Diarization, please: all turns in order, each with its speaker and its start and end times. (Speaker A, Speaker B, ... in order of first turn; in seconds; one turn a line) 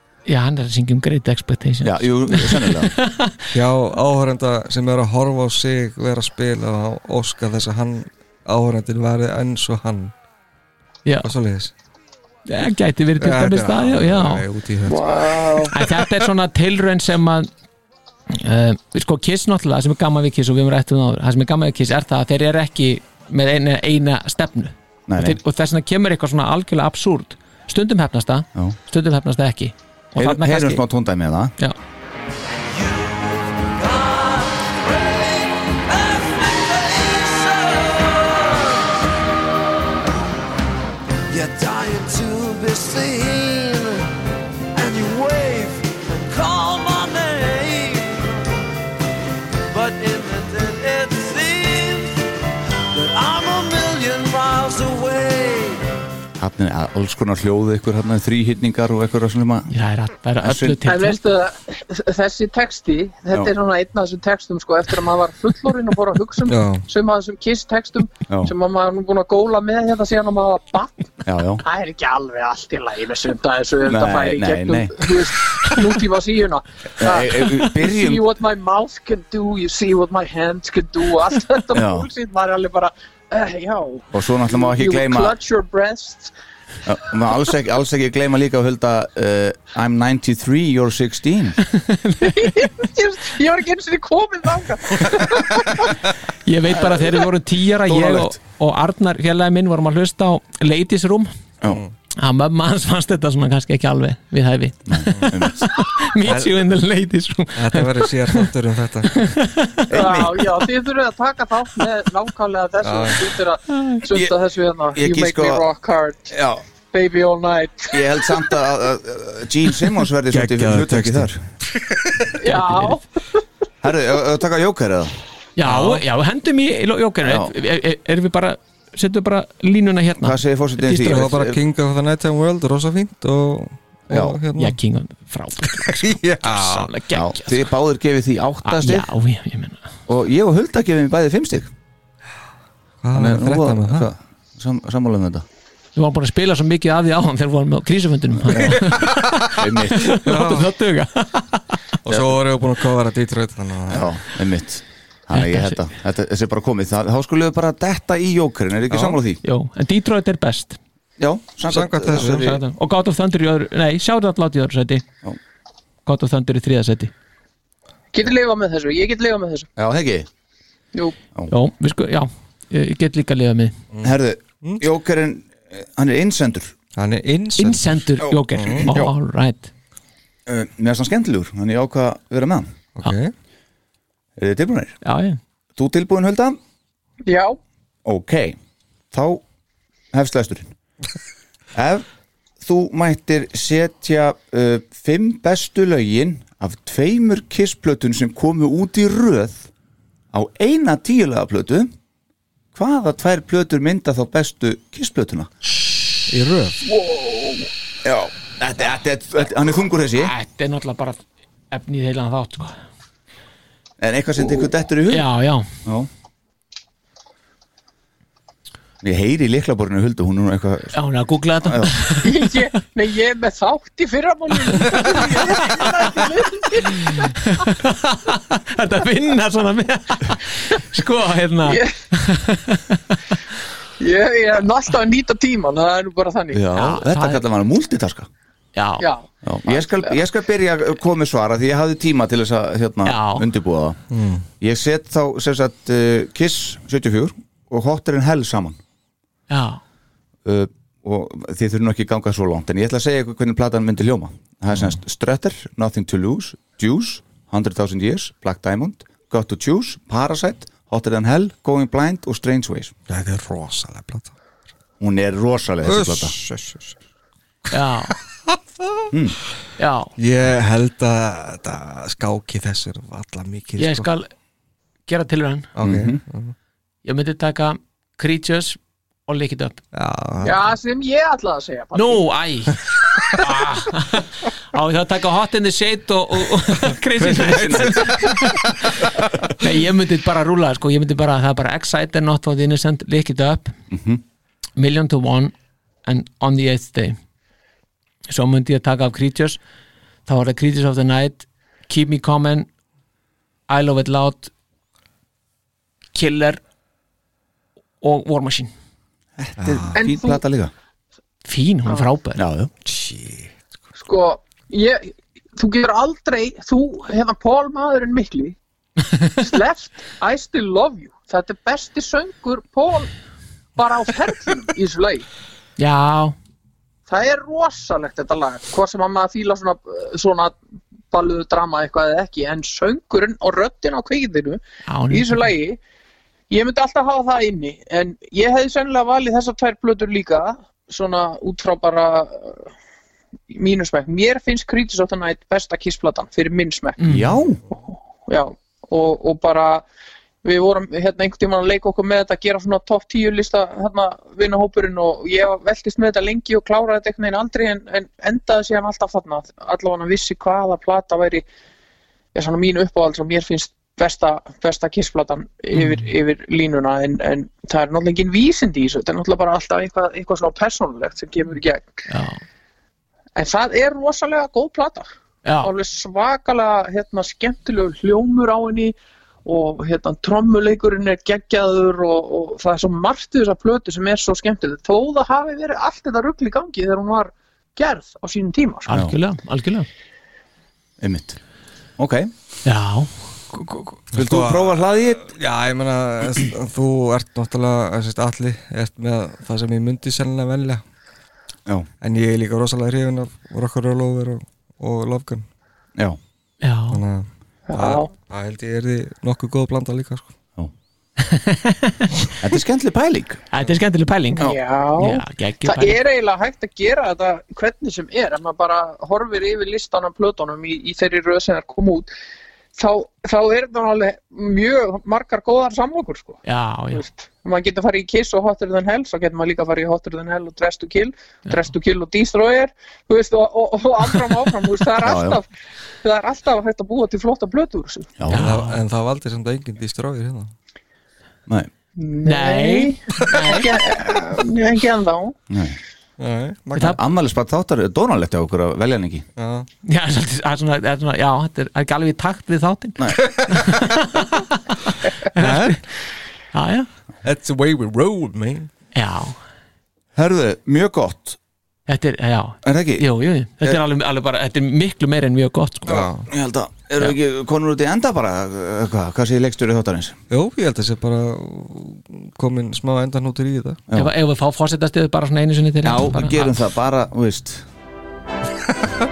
Speaker A: 0.3-3.4
Speaker B: 1.8-2.9
Speaker C: 3.5-10.1
Speaker C: 11.2-11.7
Speaker A: 12.5-14.4
Speaker C: 13.2-15.2
Speaker D: 14.9-15.7
Speaker A: 15.7-17.5
Speaker A: 18.3-30.8
Speaker B: 25.1-25.4
Speaker B: 30.2-31.6
Speaker E: 32.7-39.0
Speaker E: 41.3-44.1
Speaker E: 44.8-48.5
Speaker E: 49.7-52.2
Speaker E: 52.9-55.8
Speaker B: 56.4-59.7
Speaker A: 59.7-61.2
Speaker B: 60.4-60.8
Speaker D: 60.9-86.3
Speaker C: 66.5-66.8
Speaker B: 68.3-68.5
Speaker B: 71.2-71.7
Speaker B: 73.8-75.1
Speaker B: 77.0-78.3
Speaker B: 81.7-82.1
Speaker B: 84.1-85.4
Speaker B: 86.9-91.6
Speaker A: 91.7-92.7
Speaker D: 92.2-95.9
Speaker A: 96.4-101.3
Speaker B: 97.9-98.4
Speaker A: 102.2-108.5
Speaker B: 104.9-105.7
Speaker C: 106.3-106.6
Speaker C: 107.5-109.2
Speaker A: 109.2-109.9
Speaker B: 109.9-110.4
Speaker D: 109.9-116.3
Speaker C: 112.8-113.3
Speaker A: 113.7-114.0
Speaker B: 114.1-114.4
Speaker B: 114.9-115.6
Speaker B: 116.3-116.6
Speaker D: 116.9-118.6
Speaker B: 117.9-121.4
Speaker C: 120.3-122.2
Speaker D: 122.4-123.4
Speaker A: 122.7-123.0
Speaker B: 123.8-125.2
Speaker A: 125.6-131.3
Speaker B: 127.2-127.5
Speaker B: 130.2-131.6
Speaker C: 131.1-134.8
Speaker B: 134.1-134.4
Speaker A: 134.6-137.7
Speaker C: 135.7-136.9
Speaker B: 137.1-139.1
Speaker A: 138.7-139.9
Speaker B: 140.1-141.7
Speaker C: 143.0-144.1
Speaker B: 143.1-145.4
Speaker A: 146.0-151.7
Speaker B: 148.4-150.1
Speaker C: 148.6-149.3
Speaker C: 150.1-150.7
Speaker B: 152.1-152.4
Speaker C: 152.1-154.1
Speaker B: 153.9-159.4
Speaker A: 155.3-155.8
Speaker C: 158.9-159.2
Speaker A: 159.4-160.8
Speaker B: 161.2-162.6
Speaker C: 161.7-162.5
Speaker A: 162.2-165.0
Speaker A: 166.1-167.1
Speaker D: 168.1-169.7
Speaker B: 169.8-170.3
Speaker A: 171.5-173.8
Speaker C: 173.9-174.9
Speaker B: 174.0-176.7
Speaker C: 177.0-178.9
Speaker A: 177.6-179.7
Speaker B: 178.2-179.1
Speaker B: 180.5-182.7
Speaker C: 183.0-183.3
Speaker B: 184.4-185.0
Speaker A: 185.0-185.4
Speaker B: 185.8-186.6
Speaker D: 187.2-187.6
Speaker B: 188.1-188.6
Speaker B: 189.1-189.4
Speaker B: 190.1-190.7
Speaker B: 191.7-192.1
Speaker B: 192.6-199.7
Speaker B: 200.3-201.9
Speaker B: 202.8-205.5
Speaker C: 206.3-206.8
Speaker D: 206.8-207.7
Speaker B: 208.0-210.3
Speaker A: 210.2-211.2
Speaker A: 211.7-212.8
Speaker B: 214.0-215.3
Speaker A: 215.1-215.7
Speaker B: 219.0-221.0
Speaker A: 220.9-222.4
Speaker B: 221.6-221.9
Speaker D: 222.2-227.3
Speaker A: 224.8-225.4
Speaker A: 227.0-233.2
Speaker D: 231.7-231.9
Speaker D: 234.0-236.7
Speaker B: 236.5-238.3
Speaker A: 236.7-237.4
Speaker A: 238.8-239.1
Speaker D: 239.0-240.2
Speaker B: 239.4-244.0
Speaker A: 243.1-243.4
Speaker C: 244.1-244.4
Speaker B: 244.6-248.8
Speaker A: 249.5-249.8
Speaker B: 250.4-262.9
Speaker C: 263.1-264.3
Speaker B: 265.0-266.4
Speaker C: 265.8-267.0
Speaker A: 267.7-268.1
Speaker C: 267.7-269.0
Speaker B: 269.1-269.4
Speaker A: 269.8-270.1
Speaker C: 270.2-274.1
Speaker A: 273.8-274.3
Speaker A: 275.1-275.7
Speaker C: 275.8-276.6
Speaker B: 275.8-276.2
Speaker A: 277.1-279.8
Speaker C: 279.9-280.6
Speaker D: 280.4-282.3
Speaker A: 281.9-293.8
Speaker C: 287.2-288.6
Speaker B: 287.3-288.2
Speaker B: 293.9-294.2
Speaker A: 294.8-295.5
Speaker A: 296.1-297.2
Speaker A: 298.3-299.6
Speaker A: 300.3-302.7
Speaker A: 303.7-304.5
Speaker A: 306.1-306.6
Speaker A: 308.0-308.7
Speaker B: 309.4-310.7
Speaker C: 309.6-310.0
Speaker D: 310.0-310.4
Speaker A: 311.5-312.4
Speaker B: 312.4-312.7
Speaker C: 312.9-313.6
Speaker D: 314.0-318.6
Speaker D: 319.4-323.1
Speaker D: 323.8-325.3
Speaker A: 325.8-326.4
Speaker D: 327.1-330.6
Speaker D: 331.1-335.8
Speaker A: 334.9-335.5
Speaker D: 336.5-342.7
Speaker D: 343.5-347.0
Speaker A: 347.0-347.4
Speaker B: 347.1-347.6
Speaker D: 347.7-349.9
Speaker D: 350.4-361.4
Speaker D: 362.3-372.1
Speaker A: 365.7-366.1
Speaker A: 372.1-372.4
Speaker D: 373.4-375.1
Speaker A: 375.4-375.7
Speaker D: 375.6-388.9
Speaker A: 388.9-389.9
Speaker B: 391.0-391.4
Speaker B: 392.0-392.3
Speaker A: 392.6-394.0
Speaker C: 394.1-400.8
Speaker B: 394.1-395.2
Speaker C: 402.0-405.4
Speaker A: 406.6-407.0
Speaker C: 406.9-410.3
Speaker D: 407.7-408.1
Speaker A: 411.2-412.1
Speaker B: 412.4-413.4
Speaker A: 413.5-416.0
Speaker D: 414.4-422.1
Speaker D: 422.8-435.5
Speaker A: 426.4-427.1
Speaker B: 435.0-435.4
Speaker D: 436.0-438.1
Speaker B: 438.2-438.4
Speaker A: 438.3-438.8
Speaker C: 438.4-440.5
Speaker D: 442.0-445.4
Speaker A: 442.2-443.7
Speaker B: 445.5-445.8
Speaker C: 446.2-447.0
Speaker B: 446.8-449.3
Speaker C: 449.4-449.7
Speaker A: 449.8-454.8
Speaker B: 453.0-453.2
Speaker C: 453.2-453.7
Speaker A: 455.3-455.8
Speaker C: 455.4-455.8
Speaker A: 456.5-456.9
Speaker C: 457.2-458.7
Speaker A: 458.9-459.4
Speaker B: 460.1-461.4
Speaker A: 461.9-465.9
Speaker B: 462.6-463.1
Speaker B: 465.9-470.2
Speaker C: 465.9-466.3
Speaker C: 470.3-473.8
Speaker A: 473.9-476.5
Speaker B: 475.8-477.7